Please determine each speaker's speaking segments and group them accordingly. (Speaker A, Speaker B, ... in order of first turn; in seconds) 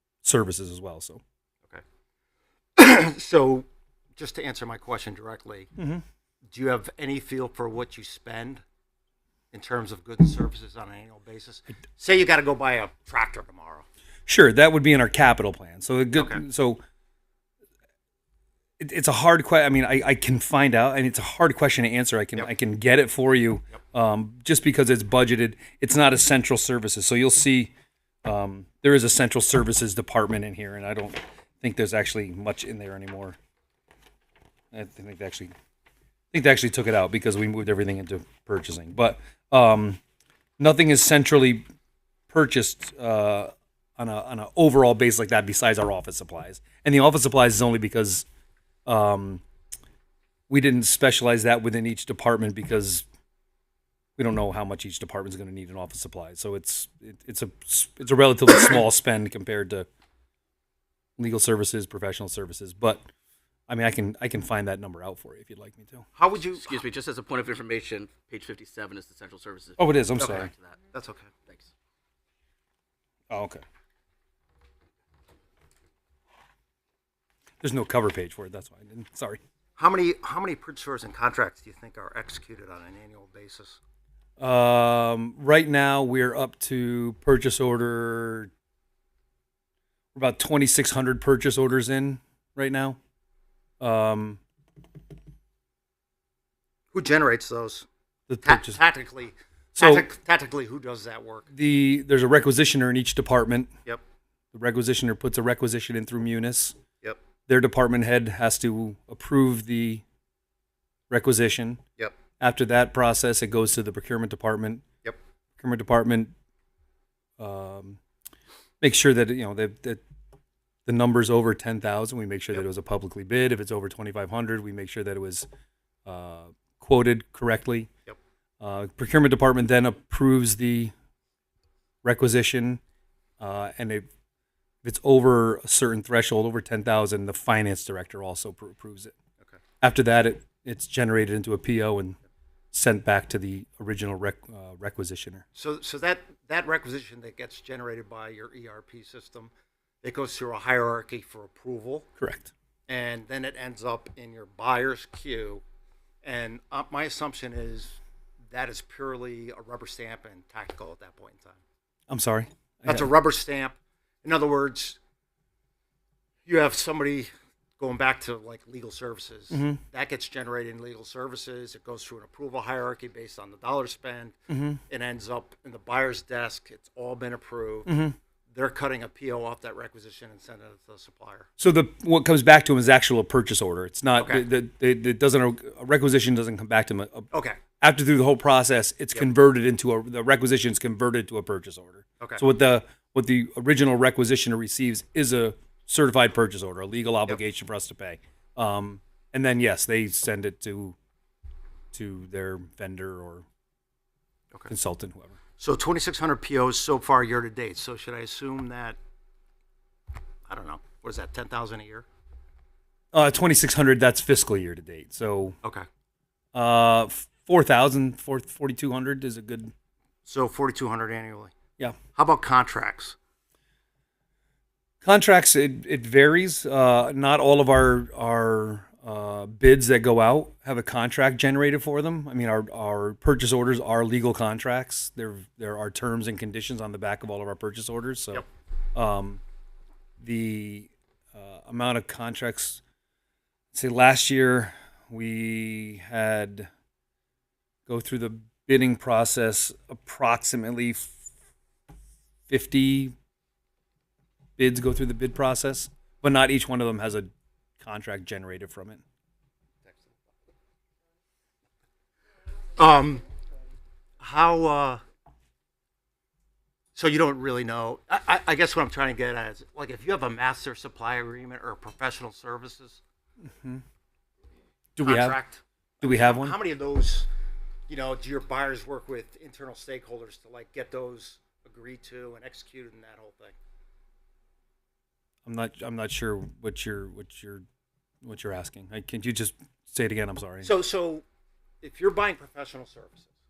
Speaker A: 0.2-1.2, 5.8-6.0, 14.3-16.8, 18.8-27.7, 28.2-33.4, 34.7-35.5, 36.3-40.0, 40.6-41.6, 42.3-48.3, 48.9-49.4, 50.5-53.0, 54.2-59.9, 61.2-63.1, 63.7-66.1, 69.8-70.5, 73.3-73.6, 77.6-79.4, 84.4-88.5, 90.2-93.0, 93.8-94.4, 98.3-98.8, 99.8-100.1, 101.5-103.7, 104.5-106.8, 107.5-110.0, 111.1-111.8, 112.4-114.8, 115.6-116.3, 117.4-118.0, 118.8-120.0, 120.9-125.5, 126.0-127.9, 128.6-130.9, 132.0-132.8, 133.4-134.1, 134.8-139.1, 139.8-142.2, 142.7-145.4, 152.2-152.5, 162.1-163.1, 169.5-169.8, 174.5-174.8, 177.9-178.2, 181.6-187.3, 187.8-201.0, 201.9-203.5, 204.7-205.4, 213.1-215.6, 216.5-219.7, 225.0-239.4, 240.2-242.8, 243.7-246.7, 247.9-251.1, 252.5-253.2, 254.6-259.0, 273.4-273.8, 275.0-275.4, 276.0-276.6, 285.5-287.6, 288.2-290.7
Speaker B: 2.8-5.7, 6.5-8.6, 9.5-13.9, 16.1-16.4, 66.2-66.8, 70.2-71.3, 79.8-83.8, 96.9-97.9, 98.4-101.5, 145.6-149.5, 150.0-152.1, 152.9-155.6, 156.2-158.0, 158.5-161.6, 162.9-165.0, 166.4-174.4, 174.9-177.9, 178.5-181.5, 184.2-184.5, 187.3-187.6, 205.6-209.0, 210.5-212.1, 220.3-221.5, 222.2-223.2, 259.9-260.1, 262.8-263.2, 264.2-265.0, 266.9-273.0, 275.0-277.3, 277.9-283.6, 290.6-291.2, 291.8-293.3
Speaker C: 66.6-70.8